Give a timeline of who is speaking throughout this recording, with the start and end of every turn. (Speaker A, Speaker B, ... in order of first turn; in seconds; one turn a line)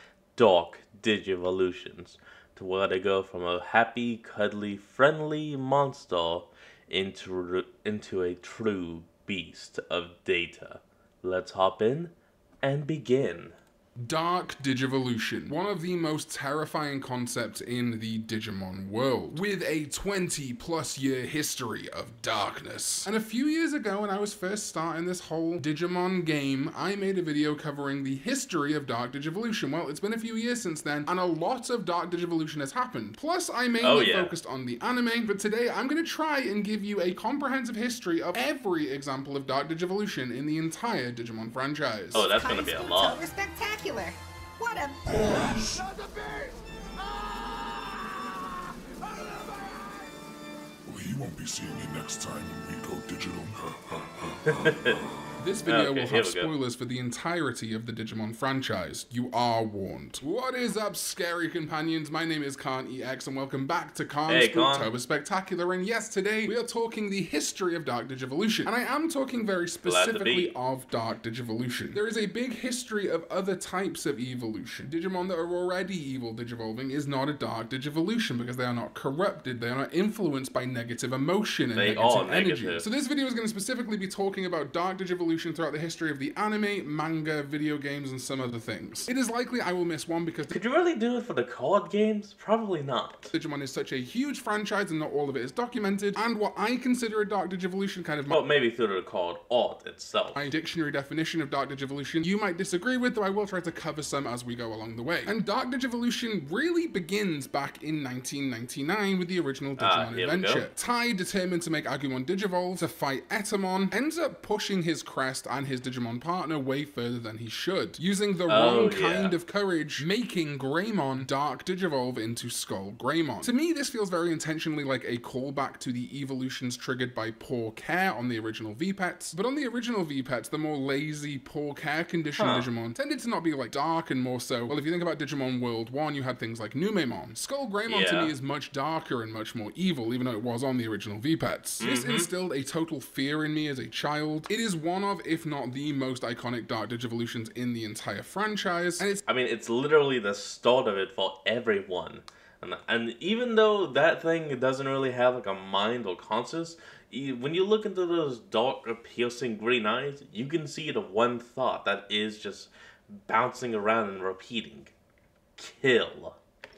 Speaker A: 0.4-13.6
Speaker B: 14.0-42.3
Speaker A: 33.8-34.3
Speaker A: 42.1-43.2
Speaker C: 42.3-45.9
Speaker D: 51.1-53.5
Speaker A: 54.5-55.0
Speaker B: 55.4-90.6
Speaker A: 55.6-56.5
Speaker A: 64.3-64.9
Speaker A: 69.8-70.5
Speaker A: 81.8-82.8
Speaker A: 90.5-93.3
Speaker B: 93.3-98.4
Speaker A: 98.3-100.4
Speaker B: 100.3-149.2
Speaker A: 109.8-110.7
Speaker A: 118.5-119.4
Speaker A: 132.4-132.7
Speaker A: 137.9-138.3
Speaker A: 141.8-142.3
Speaker A: 149.0-164.9
Speaker A: 165.6-166.4